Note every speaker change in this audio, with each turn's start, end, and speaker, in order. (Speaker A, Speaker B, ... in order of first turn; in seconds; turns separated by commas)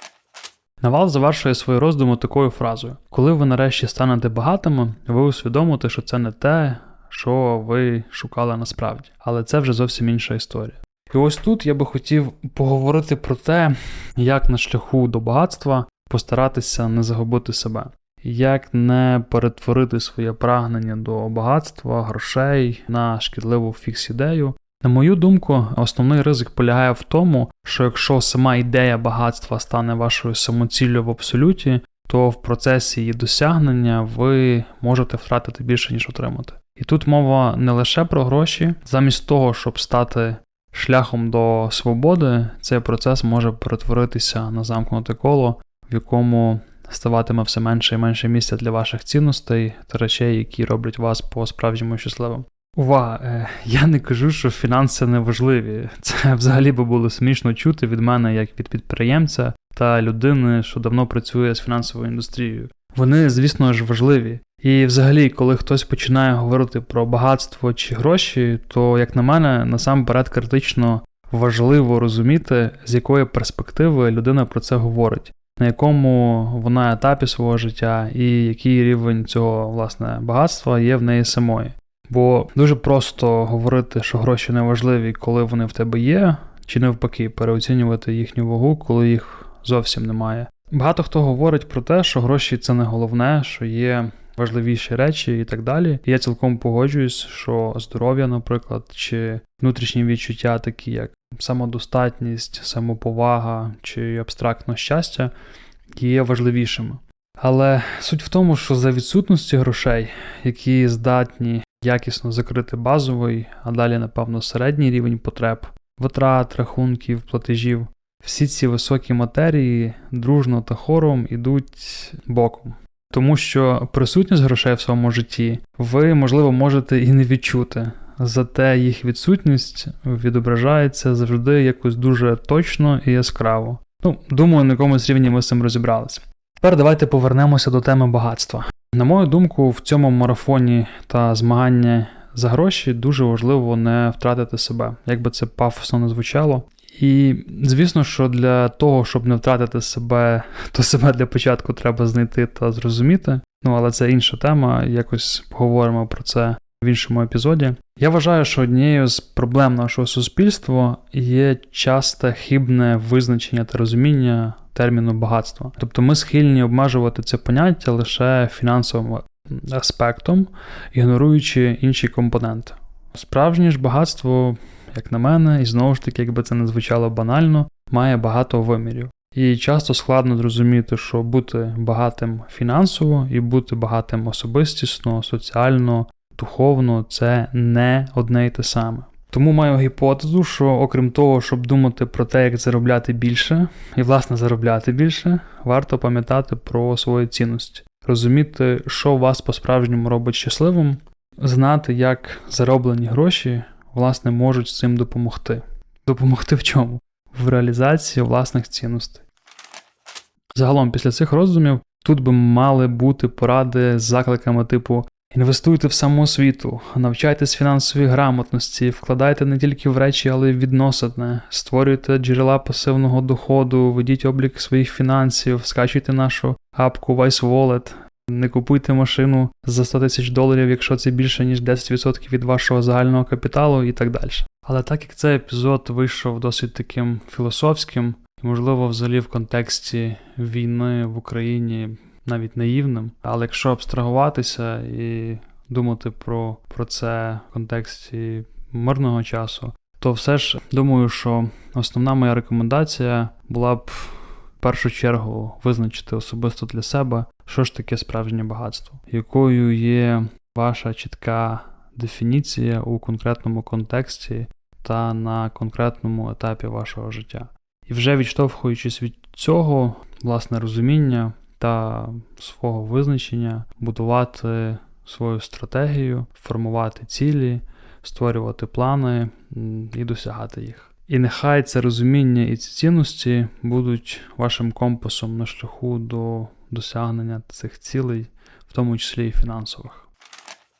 Speaker A: 0.8-105.3, Speaker A: 105.9-209.2, Speaker A: 210.5-290.1